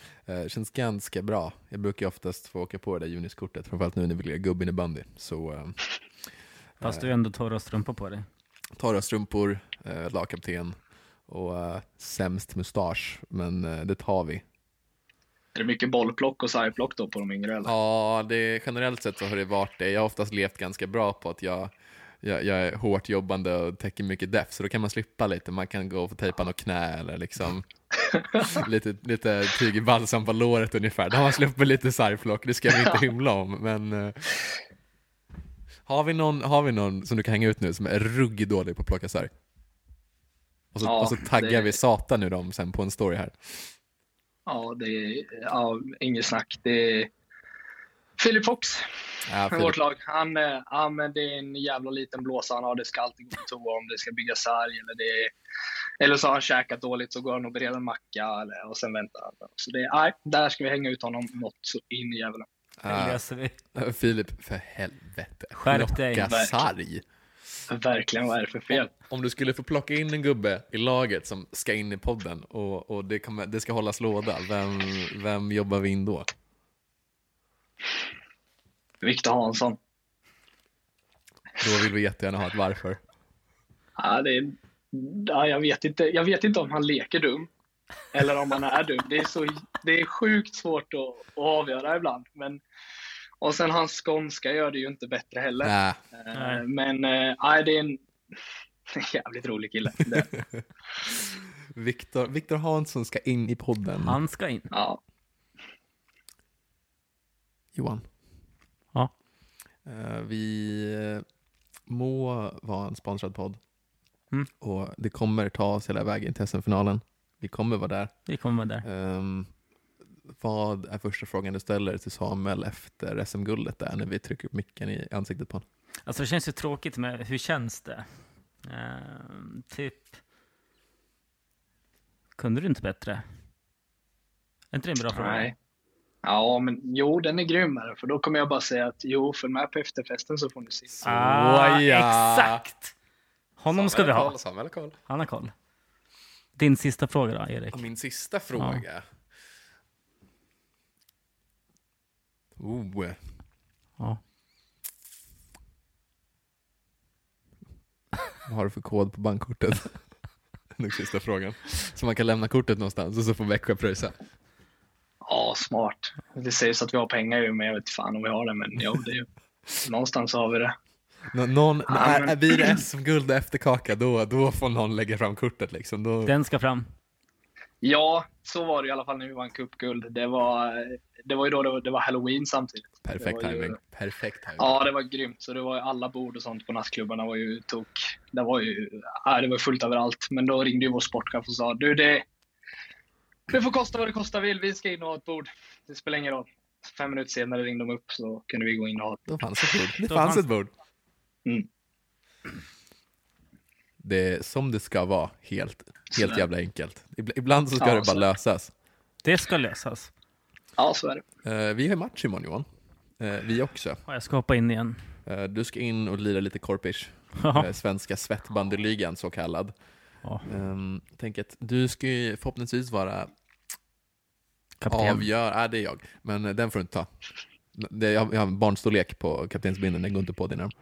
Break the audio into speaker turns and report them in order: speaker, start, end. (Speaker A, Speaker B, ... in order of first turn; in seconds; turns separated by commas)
Speaker A: 0.2-5.8, Speaker A: 6.8-7.1, Speaker B: 6.8-8.2, Speaker A: 8.8-10.8, Speaker A: 11.3-14.4, Speaker C: 15.5-17.7, Speaker A: 17.6-27.7, Speaker A: 28.3-34.4, Speaker A: 35.9-39.3, Speaker A: 40.7-43.7, Speaker C: 40.8-41.7, Speaker C: 44.5-47.1, Speaker C: 48.2-48.8, Speaker A: 49.3-49.8, Speaker C: 49.4-55.3, Speaker C: 56.0-62.5, Speaker A: 62.8-63.2, Speaker B: 62.9-63.5, Speaker A: 63.7-67.0, Speaker B: 65.6-66.3, Speaker C: 66.2-66.5, Speaker C: 67.7-68.9, Speaker A: 68.7-76.3, Speaker C: 79.0-79.8, Speaker A: 81.6-83.0, Speaker C: 84.0-87.5, Speaker C: 88.1-92.6, Speaker C: 93.4-98.0, Speaker A: 95.6-96.0, Speaker B: 96.3-96.6, Speaker C: 98.9-100.3, Speaker A: 100.1-104.2, Speaker B: 104.0-104.7, Speaker C: 104.7-105.0, Speaker A: 107.7-108.0, Speaker A: 109.8-111.2, Speaker A: 111.9-113.6, Speaker A: 114.6-118.1, Speaker B: 118.3-118.8, Speaker A: 118.8-119.5, Speaker A: 120.4-125.6, Speaker B: 126.0-128.1, Speaker B: 128.6-130.1, Speaker B: 132.3-133.2, Speaker B: 134.7-135.5, Speaker C: 135.1-135.5, Speaker C: 136.2-141.0, Speaker A: 141.0-142.6, Speaker B: 141.0-142.9, Speaker B: 143.6-144.3, Speaker A: 143.7-144.9, Speaker B: 145.1-145.5, Speaker B: 146.6-147.8, Speaker A: 147.7-149.0, Speaker B: 148.6-148.8, Speaker A: 152.6-153.2, Speaker A: 158.4-160.0, Speaker A: 160.7-164.1, Speaker C: 165.2-169.2, Speaker C: 169.8-170.7, Speaker A: 171.3-176.3, Speaker C: 171.9-172.8, Speaker B: 176.2-176.8, Speaker C: 177.8-183.8, Speaker A: 183.0-184.8, Speaker C: 184.6-192.2, Speaker C: 193.5-199.3, Speaker A: 199.3-200.7, Speaker B: 200.1-200.4, Speaker A: 204.0-208.7, Speaker C: 206.1-206.4, Speaker C: 207.8-208.3, Speaker B: 209.2-210.1, Speaker C: 210.8-211.2, Speaker A: 211.4-212.6, Speaker A: 213.2-214.0, Speaker B: 214.1-215.0, Speaker A: 215.2-219.7, Speaker B: 217.4-217.7, Speaker A: 220.5-223.3, Speaker B: 224.8-225.2, Speaker A: 224.9-227.1, Speaker A: 227.7-230.7